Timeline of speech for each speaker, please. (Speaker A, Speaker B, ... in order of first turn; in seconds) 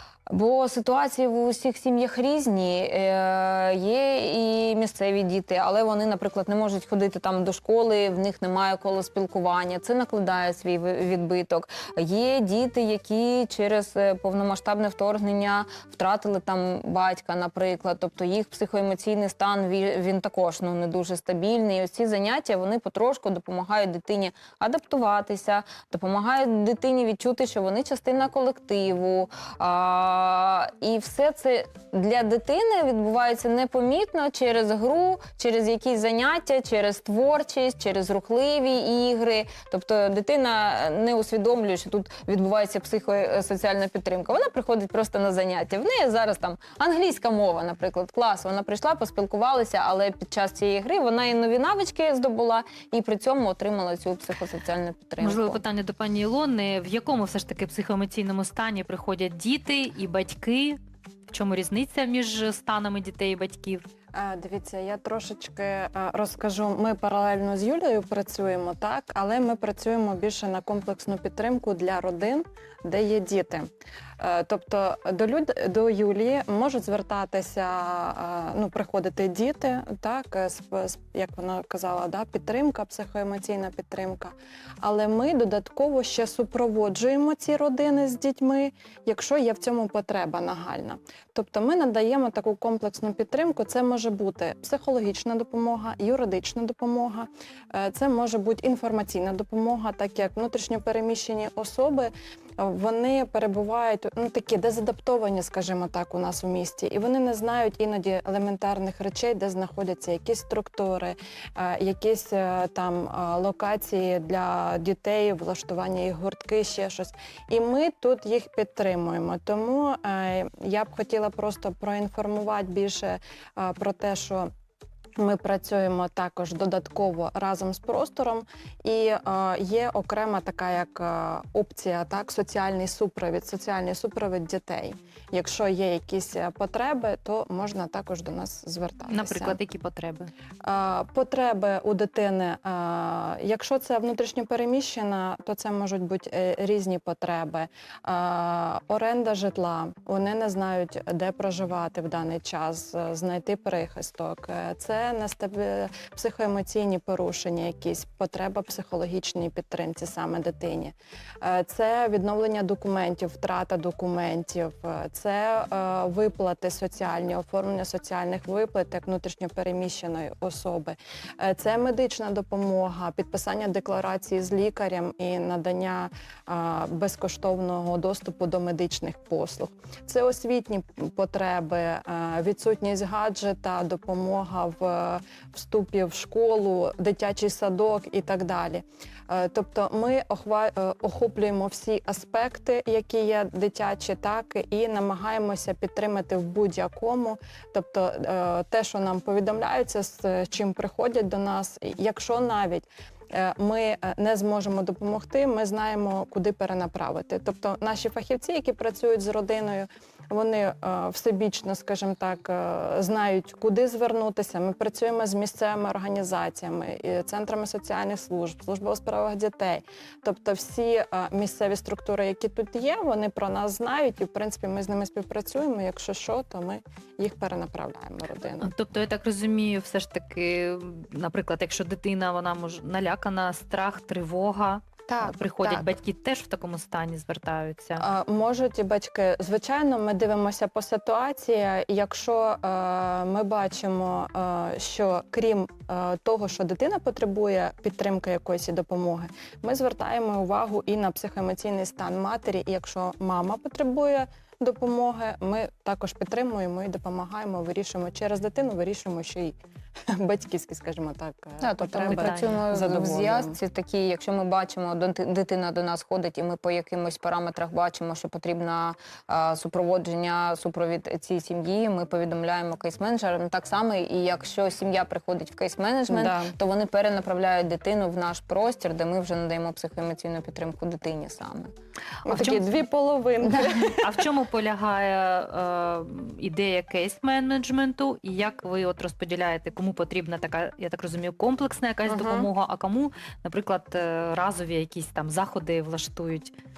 Speaker A: 0.3-55.6, 261.6-281.7, 283.4-283.9
Speaker B: 55.2-60.8, 61.3-63.9, 139.1-140.3, 228.6-238.0, 261.9-262.7, 282.3-282.6, 283.9-296.5
Speaker C: 64.1-73.7, 74.2-124.5, 125.2-139.6, 140.6-228.7, 235.1-235.9, 238.0-259.6, 260.1-263.6, 276.1-276.5, 282.2-284.2, 292.1-292.5